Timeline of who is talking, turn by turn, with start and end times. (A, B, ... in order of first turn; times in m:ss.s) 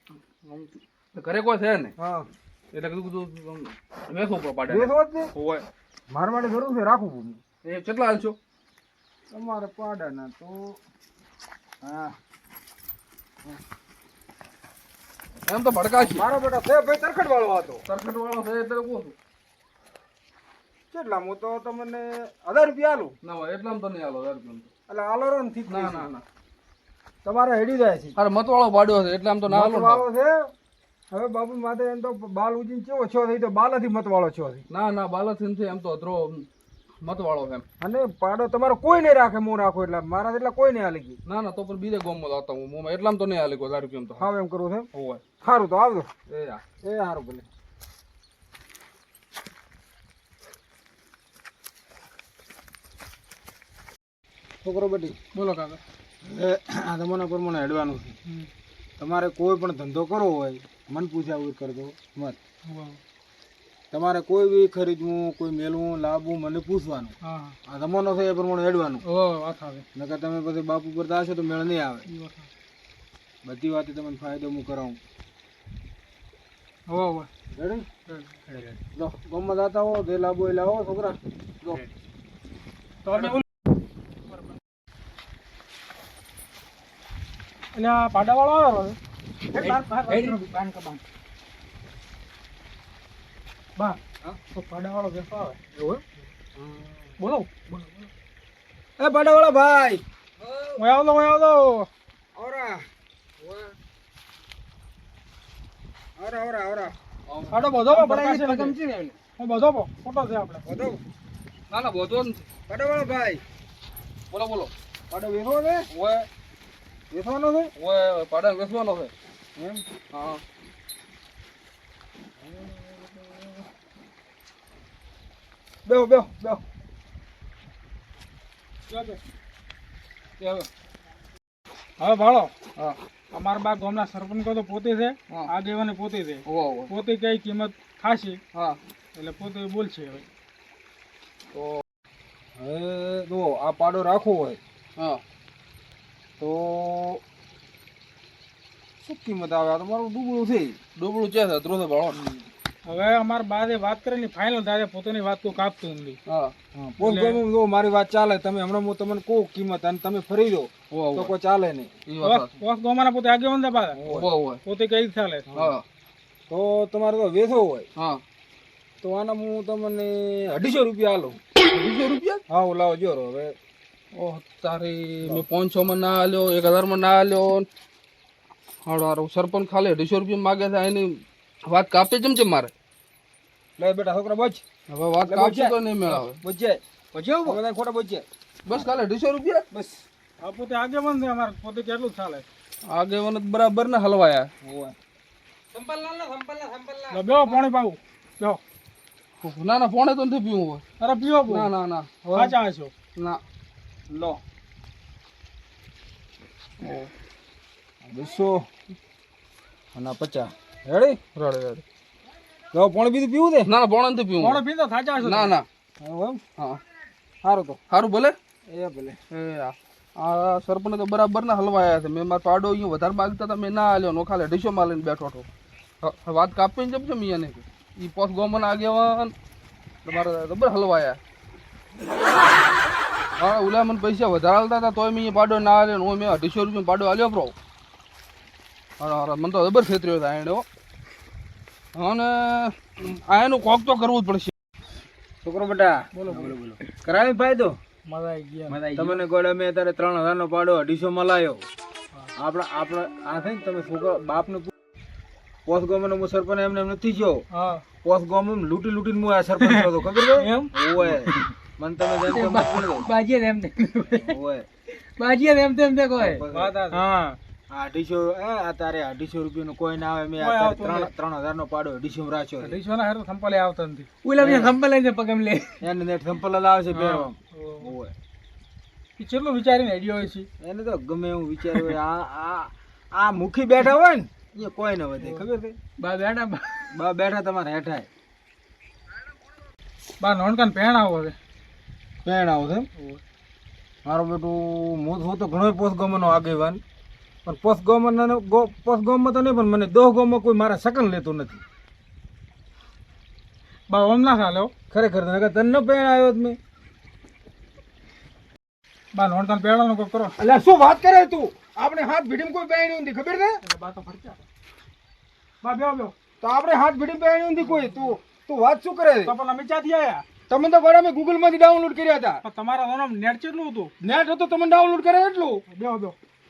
0:00.4-0:01.9 A
0:02.0-0:02.3 B
0:02.7-0:05.6 A
0:04.7-0:05.3 B
0:06.1-0:07.4 B
0:07.6-0:08.4 A
0:09.3-0:10.8 B
0:11.8-0:12.1 B
0:15.5-0:16.3 A
0:16.0-0:17.8 B
0:17.9-0:19.2 A
0:20.9-0:23.1 B
0:23.2-0:24.7 A
0:24.9-0:26.1 B
0:25.7-0:26.2 A
0:27.2-0:28.2 B
0:28.2-0:30.1 A
0:29.5-0:30.5 B
0:31.1-0:34.6 B
0:34.7-0:36.5 A
0:37.0-0:37.6 A
0:37.8-0:41.2 B
0:41.3-0:44.3 A
0:44.2-0:44.9 B
0:44.9-0:45.2 A
0:45.4-0:46.1 B
0:46.3-0:46.6 A
0:46.8-0:47.4 B
0:54.6-0:55.2 B
0:55.3-0:55.8 C
0:56.2-0:58.2 B
0:59.0-1:02.4 B
1:02.7-1:03.0 C
1:03.9-1:07.2 B
1:07.2-1:07.6 C
1:07.7-1:09.0 B
1:09.0-1:09.8 C
1:10.0-1:12.1 B
1:12.1-1:12.5 C
1:13.4-1:15.0 B
1:16.9-1:17.3 C
1:17.5-1:17.9 B
1:18.1-1:18.4 C
1:18.5-1:18.8 D
1:19.0-1:21.8 B
1:23.0-1:23.4 C
1:27.7-1:29.0 C
1:29.5-1:30.4 D
1:29.5-1:31.0 C
1:33.8-1:36.0 C
1:36.6-1:37.1 B
1:37.2-1:37.5 C
1:39.0-1:40.0 B
1:40.8-1:41.9 C
1:42.4-1:42.9 B
1:46.2-1:47.0 B
1:47.3-1:47.6 A
1:47.5-1:48.8 C
1:47.9-1:49.2 D
1:49.4-1:50.6 C
1:50.6-1:51.0 B
1:51.7-1:52.5 A
1:52.7-1:53.4 B
1:54.3-1:54.7 A
1:55.1-1:55.9 B
1:55.9-1:56.3 A
1:57.1-1:57.7 B
1:57.8-1:59.1 A
1:59.6-1:59.8 B
2:00.1-2:00.4 A
2:05.8-2:06.6 B
2:08.9-2:09.2 C
2:10.4-2:10.7 A
2:12.0-2:12.5 C
2:13.3-2:18.4 C
2:16.5-2:16.9 A
2:18.5-2:18.8 A
2:19.2-2:20.2 C
2:21.5-2:21.8 A
2:22.6-2:24.6 B
2:25.0-2:25.2 A
2:26.4-2:27.2 B
2:29.0-2:30.8 B
2:31.0-2:32.2 A
2:32.1-2:32.4 B
2:32.9-2:36.2 C
2:36.3-2:36.5 A
2:36.7-2:41.9 B
2:37.0-2:37.4 C
2:40.9-2:41.3 A
2:42.1-2:42.5 A
2:42.2-2:44.0 C
2:43.9-2:44.3 B
2:44.1-2:44.6 A
2:44.6-2:45.5 C
2:45.5-2:45.8 A
2:46.5-2:47.9 B
2:48.0-2:48.2 A
2:49.0-2:51.4 B
2:51.7-2:52.4 A
2:52.5-2:53.5 B
2:54.1-2:57.7 A
2:58.8-3:02.7 A
3:03.8-3:04.6 B
3:04.9-3:06.4 A
3:05.2-3:06.8 B
3:07.1-3:07.6 D
3:07.4-3:08.8 B
3:08.7-3:09.6 A
3:09.7-3:10.0 B
3:10.4-3:12.4 C
3:12.8-3:14.5 A
3:14.6-3:15.0 B
3:15.7-3:17.6 D
3:17.1-3:18.6 C
3:19.4-3:20.8 A
3:21.0-3:21.7 C
3:21.4-3:22.5 A
3:22.3-3:22.9 C
3:23.2-3:23.4 A
3:24.1-3:24.4 B
3:28.0-3:28.6 B
3:29.9-3:31.2 B
3:31.4-3:31.8 A
3:32.7-3:33.7 B
3:33.7-3:34.6 A
3:34.4-3:35.6 C
3:35.2-3:35.7 A
3:36.0-3:36.4 B
3:37.4-3:37.8 B
3:37.9-3:38.4 A
3:38.7-3:39.2 B
3:39.3-3:45.5 A
3:46.0-3:49.4 A
3:50.0-3:51.2 A
3:53.4-3:57.5 A
3:59.0-4:00.6 A
4:02.0-4:04.5 A
4:05.4-4:07.8 B
4:06.1-4:06.6 C
4:08.1-4:08.8 C
4:08.7-4:09.2 D
4:08.8-4:11.7 B
4:12.4-4:14.7 B
4:15.7-4:17.5 B
4:17.5-4:17.8 C
4:18.0-4:23.1 B
4:19.7-4:20.7 C
4:21.1-4:21.5 D
4:22.2-4:24.4 D
4:24.1-4:24.7 B
4:24.9-4:27.2 D
4:26.2-4:26.8 B
4:26.5-4:27.1 C
4:27.7-4:32.8 B
4:30.4-4:31.1 C
4:32.6-4:34.1 C
4:34.2-4:35.8 D
4:34.4-4:34.8 B
4:35.8-4:38.1 B
4:36.9-4:37.9 C
4:39.2-4:40.5 C
4:40.6-4:45.8 B
4:46.0-4:46.9 D
4:46.9-4:48.1 B
4:50.2-4:51.4 C
4:52.2-4:52.9 B
4:54.0-4:56.8 B
4:57.4-5:01.6 B
5:03.9-5:04.7 C
5:04.9-5:06.6 B
5:09.1-5:10.4 C
5:10.4-5:13.6 B
5:13.6-5:14.5 C
5:15.6-5:16.1 C
5:16.4-5:19.3 B
5:17.6-5:18.1 C
5:19.2-5:20.2 C
5:20.5-5:22.4 B
5:22.4-5:23.9 C
5:24.0-5:25.6 B
5:25.7-5:26.2 C